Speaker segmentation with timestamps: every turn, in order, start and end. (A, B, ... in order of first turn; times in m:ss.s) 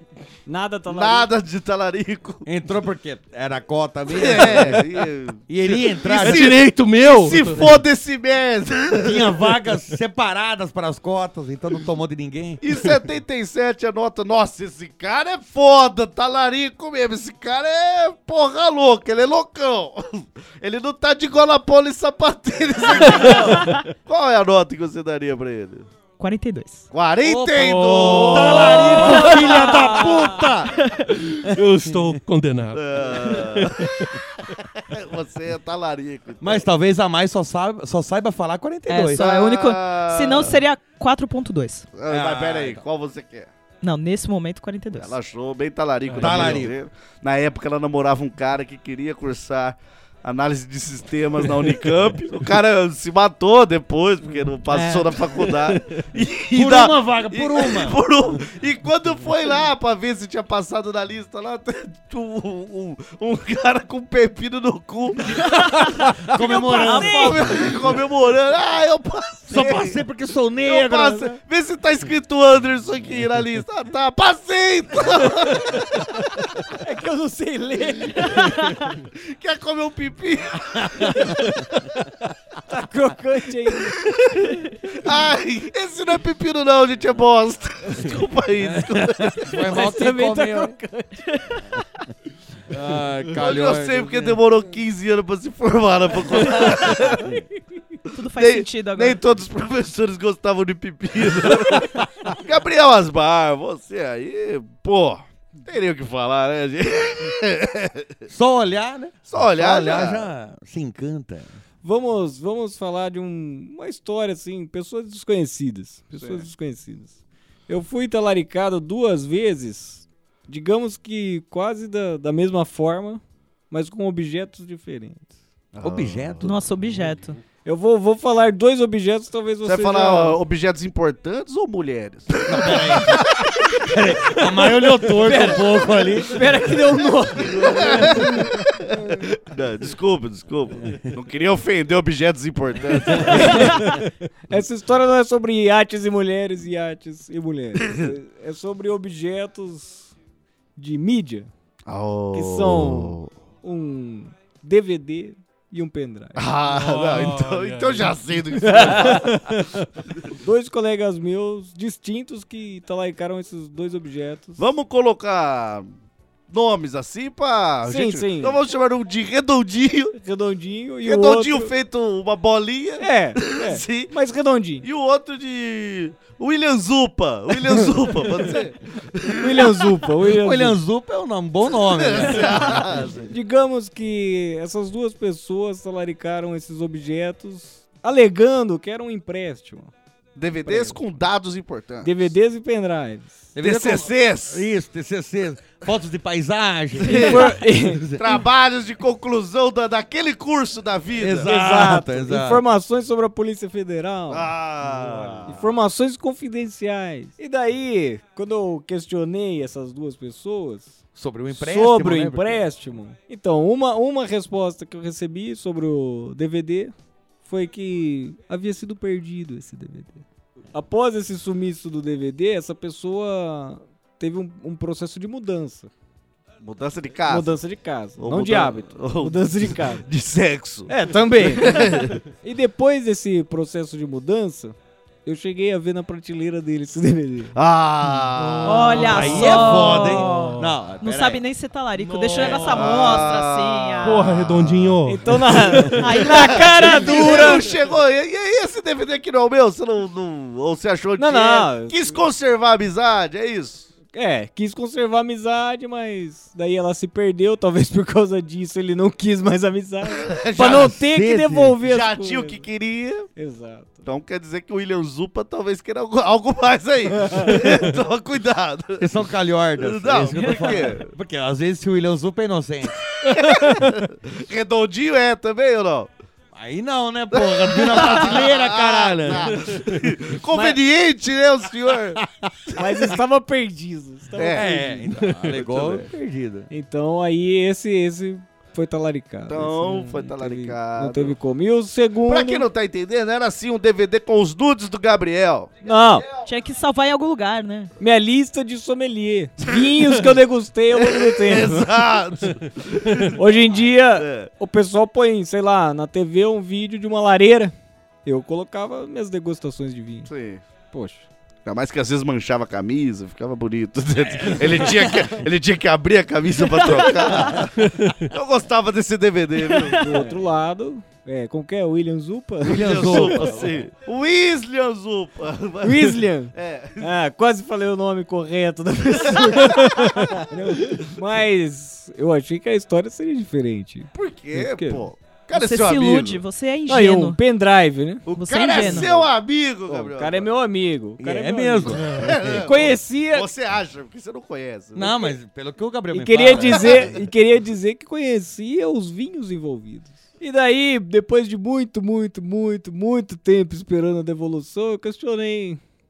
0:00.4-0:01.3 A
0:00.9-0:02.4 B
0:02.4-0:04.9 C
0:04.1-0:09.3 B
0:05.5-0:06.7 C
0:06.0-0:07.8 D
0:09.0-0:12.6 C
0:12.6-0:25.9 B
0:26.2-0:26.9 E
0:26.9-0:30.7 B
0:27.2-0:30.7 C
0:28.3-0:31.1 E
0:31.1-0:34.0 D
0:32.8-0:36.6 B
0:36.4-0:39.2 C
0:38.9-0:41.9 E
0:39.1-0:40.6 B
0:41.9-0:43.5 B
0:42.0-0:42.8 C
0:43.8-0:45.2 E
0:44.9-1:10.0 B
0:46.1-0:46.6 D
0:46.2-0:46.7 C
0:54.7-0:55.2 E
0:56.5-0:58.0 C
1:05.4-1:07.5 E
1:06.3-1:07.7 C
1:09.5-1:11.4 C
1:10.6-1:16.1 B
1:16.7-1:18.4 A
1:18.4-1:18.9 E
1:19.1-1:21.9 B
1:20.8-1:21.3 C
1:22.7-1:23.9 A
1:23.7-1:29.6 B
1:28.6-1:30.8 C
1:29.7-1:31.2 A
1:31.3-1:31.6 E
1:32.7-1:34.4 C
1:33.3-1:37.4 B
1:38.1-1:39.2 E
1:38.3-1:48.1 B
1:48.3-1:51.5 C
1:49.3-1:50.3 B
1:51.8-1:57.1 A
1:56.2-1:56.4 B
1:57.7-2:05.3 A
2:05.7-2:06.4 B
2:05.8-2:06.6 C
2:06.4-2:07.4 E
2:07.6-2:10.4 A
2:09.6-2:13.5 B
2:12.4-2:16.4 C
2:15.2-2:18.5 A
2:17.4-2:23.7 B
2:23.3-2:23.7 A
2:24.5-2:30.1 A
2:30.8-2:31.5 A
2:31.9-2:33.3 B
2:32.3-2:36.4 A
2:36.4-2:39.7 B
2:36.6-2:38.4 D
2:38.7-2:39.6 A
2:40.3-2:44.6 A
2:44.6-2:45.9 B
2:46.5-2:50.2 B
2:47.8-2:48.6 A
2:50.2-2:51.7 A
2:51.0-2:53.1 B
2:53.0-2:54.8 A
2:53.6-2:54.1 B
2:54.8-2:59.8 B
2:59.4-3:00.8 A
3:00.3-3:02.8 C
3:01.7-3:03.3 B
3:03.3-3:09.9 A
3:10.4-3:12.3 B
3:10.6-3:11.0 A
3:12.0-3:13.4 A
3:13.6-3:18.2 C
3:13.6-3:14.6 B
3:17.0-3:17.5 B
3:17.1-3:18.0 A
3:18.2-3:21.5 B
3:21.2-3:22.6 C
3:21.4-3:24.5 A
3:24.3-3:25.6 B
3:25.5-3:31.0 A
3:31.2-3:32.7 C
3:31.5-3:36.9 A
3:37.4-3:45.9 A
3:46.6-3:47.6 B
3:47.3-3:50.0 A
3:48.2-3:52.2 B
3:50.9-3:57.5 A
3:57.6-4:00.1 B
3:58.4-4:00.7 D
3:58.6-4:04.2 E
3:59.0-4:01.4 C
4:02.0-4:02.9 D
4:02.3-4:02.6 C
4:02.4-4:05.0 B
4:04.0-4:06.2 D
4:05.0-4:07.7 A
4:06.0-4:07.6 E
4:06.1-4:13.9 B
4:11.2-4:12.2 A
4:14.1-4:22.6 A
4:20.2-4:21.0 B
4:20.6-4:21.8 C
4:21.8-4:23.3 B
4:23.4-4:24.0 A
4:24.0-4:29.2 B
4:29.0-4:33.8 C
4:29.8-4:31.1 B
4:33.2-4:36.1 B
4:36.5-4:39.8 C
4:37.3-4:42.2 B
4:40.5-4:40.8 A
4:42.7-4:45.0 A
4:44.4-4:46.0 B
4:44.5-4:46.7 C
4:46.7-4:52.7 A
4:49.5-4:51.4 B
4:52.3-4:55.7 B
4:55.8-4:56.3 A
4:56.4-4:57.9 E
4:58.0-5:01.9 A
5:01.0-5:04.5 B
5:03.3-5:10.3 A
5:10.3-5:10.6 B
5:10.9-5:11.3 A
5:11.6-5:20.3 B
5:14.3-5:15.1 C
5:16.7-5:17.1 E
5:17.8-5:18.3 D
5:19.7-5:20.0 E
5:20.0-5:23.6 A
5:22.6-5:23.7 C
5:22.6-5:27.1 B
5:25.8-5:35.0 A
5:29.5-5:30.4 B
5:34.1-5:36.4 B
5:35.5-5:37.4 E
5:36.9-5:38.2 A
5:38.3-5:40.5 B
5:38.3-5:39.1 E
5:38.8-5:39.3 A
5:39.9-5:43.5 A
5:41.2-5:42.8 C
5:42.1-5:45.3 B
5:44.9-5:47.1 C
5:46.1-5:55.8 A
5:46.8-5:47.1 B